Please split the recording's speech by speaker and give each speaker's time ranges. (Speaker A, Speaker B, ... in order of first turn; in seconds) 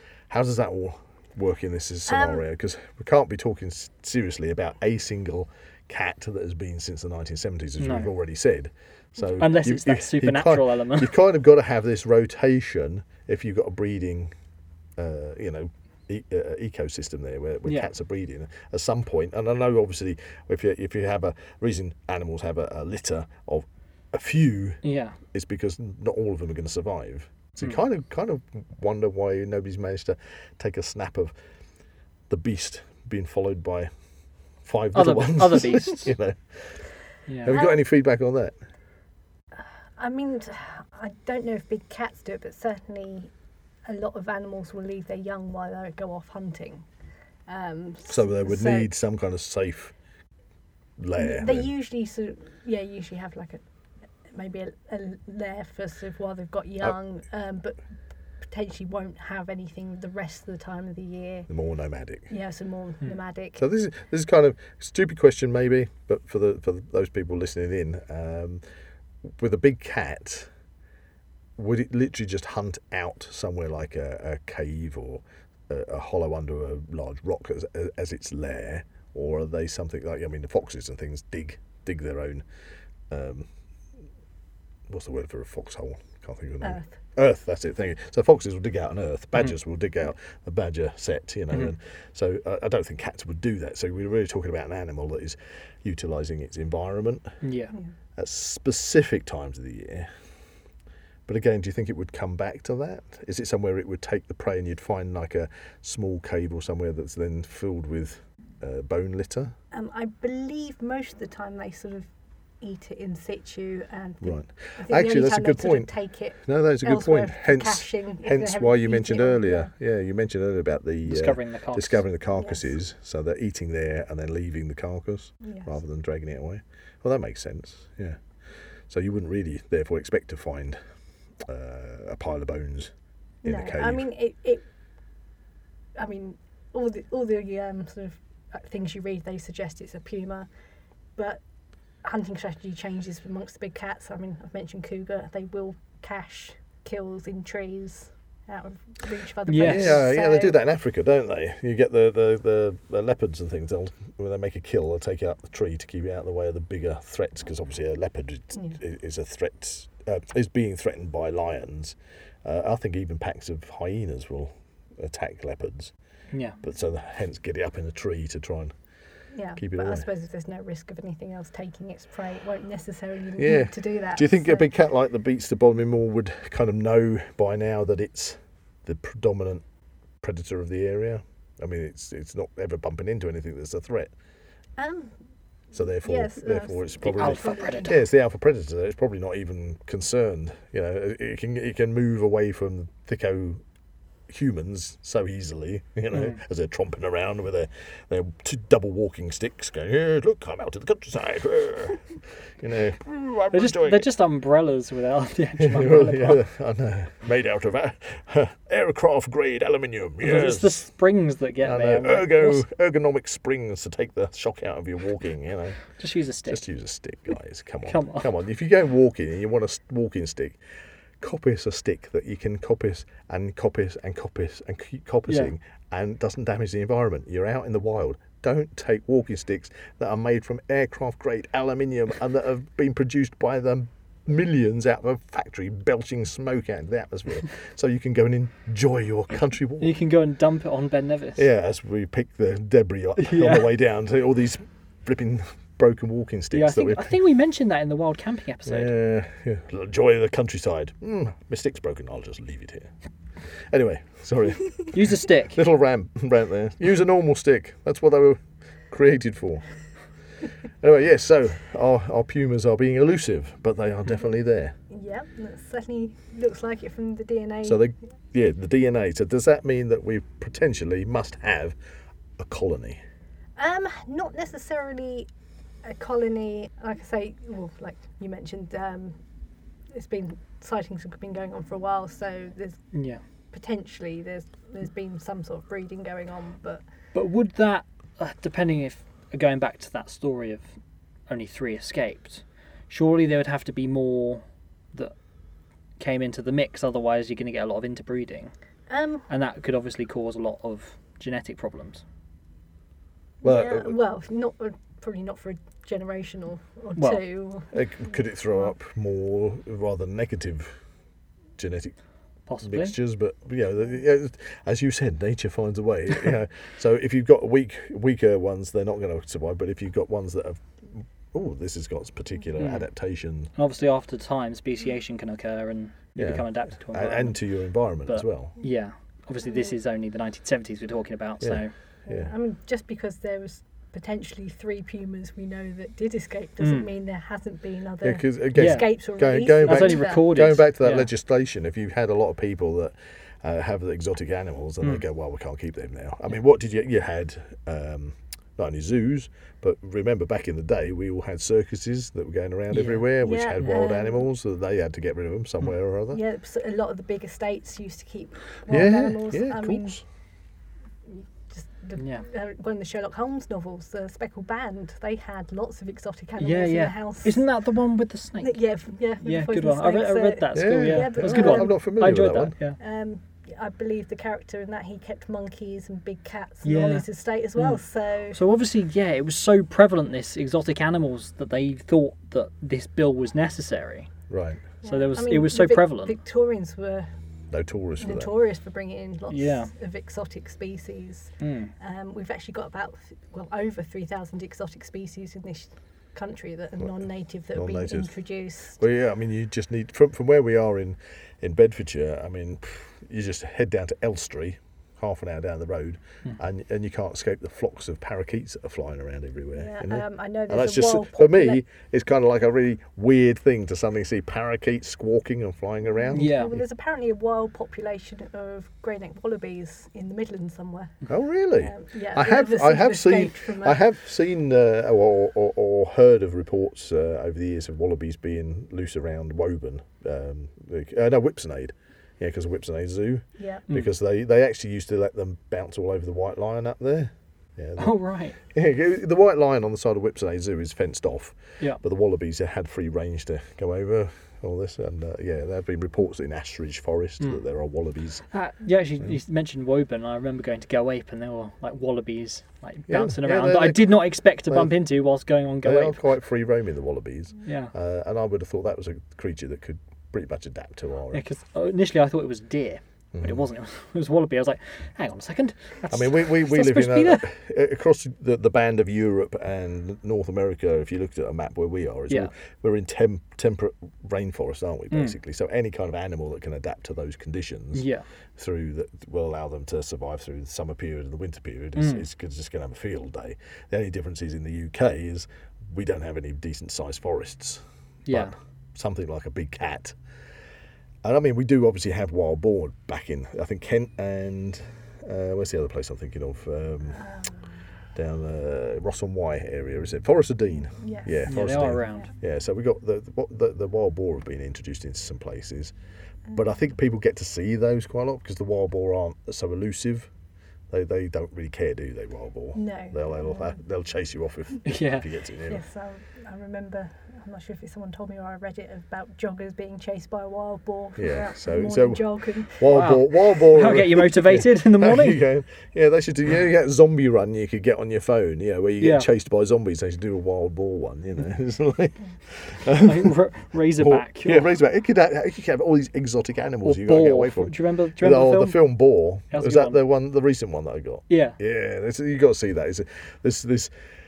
Speaker A: 0.3-14.3, 15.0-24.8, 25.3-31.3, 32.3-33.9, 34.6-36.8, 37.4-38.5, 48.1-49.9, 51.0-51.7, 61.5-62.3, 63.6-68.6, 69.3-70.5, 71.6-82.4, 83.1-83.5, 84.9-97.3, 98.2-100.1, 101.3-109.5, 114.2-115.9, 116.4-128.2, 128.9-130.8, 131.4-132.9, 133.4-134.1, 149.6-165.9, 166.6-168.7, 169.6-170.0, 173.4-179.6, 180.2-184.1, 185.7-193.6, 194.3-204.1, 205.6-210.8, 211.6-215.8, 216.5-220.6, 221.2-239.9, 241.4-247.1, 248.7-252.9, 253.7-259.6, 260.8-264.7, 267.6-271.8, 272.4-273.0, 303.4-303.9, 307.7-310.7, 311.6-311.9, 312.6-323.5, 326.1-328.5, 331.4-332.3, 338.0-356.2, 358.7-360.0, 370.5-372.5, 384.3-384.6, 387.5-388.3, 397.5-398.1, 398.8-416.6, 421.1-437.9, 438.5-448.2, 452.9-453.9, 454.5-454.7, 455.6-461.2, 463.1-463.4, 465.9-489.9, 491.0-497.0, 497.9-505.7, 506.3-510.1, 510.7-515.6, 521.0-522.0, 522.5-533.1, 533.8-543.7
Speaker B: 2.1-2.4, 37.5-37.8, 39.6-43.3, 43.9-46.8, 47.5-48.9, 51.1-53.6, 54.3-57.8, 58.4-61.5, 62.3-63.6, 109.7-112.1, 112.6-119.7, 122.3-122.6, 125.4-125.7, 133.4-134.6, 135.9-140.5, 142.0-150.6, 169.3-174.7, 184.8-185.1, 186.0-188.1, 264.9-267.8, 273.6-275.3, 275.8-279.1, 279.9-282.8, 283.5-286.8, 298.9-299.3, 303.4-307.7, 332.1-340.5, 353.2-354.3, 356.1-359.9, 361.1-367.4, 368.4-371.8, 372.8-378.4, 384.8-387.1, 388.0-398.8, 409.6-411.6, 415.9-421.0, 421.6-423.8, 433.4-433.6, 497.0-497.3, 500.8-501.4, 512.5-513.5, 515.5-522.7
Speaker C: 7.8-8.1, 9.4-11.1, 24.8-25.2, 34.9-36.1, 37.3-37.5, 97.4-97.7, 121.0-122.0, 149.5-150.0, 166.3-166.6, 187.0-187.9, 196.1-196.4, 203.5-206.4, 210.2-212.6, 216.0-216.6, 217.8-218.3, 239.8-241.4, 243.2-243.7, 246.5-248.9, 254.9-255.6, 282.9-283.2, 287.1-290.7, 291.3-295.1, 296.0-298.5, 299.3-302.0, 312.5-312.9, 322.6-322.9, 323.6-327.4, 328.1-331.7, 336.6-336.9, 338.5-338.9, 339.6-341.1, 352.7-353.1, 362.0-362.2, 366.4-368.6, 369.2-372.8, 376.6-377.0, 378.3-384.1, 384.8-386.1, 389.3-389.7, 391.4-391.7, 416.1-416.5, 437.8-438.4, 448.3-456.0, 457.4-457.7, 461.1-467.3, 474.9-475.2, 477.7-478.0, 481.8-482.0, 488.1-488.3, 501.3-502.1, 514.6-515.0, 522.7-525.2, 528.8-529.1, 532.8-534.5, 536.6-538.6, 539.3-539.8, 541.1-541.4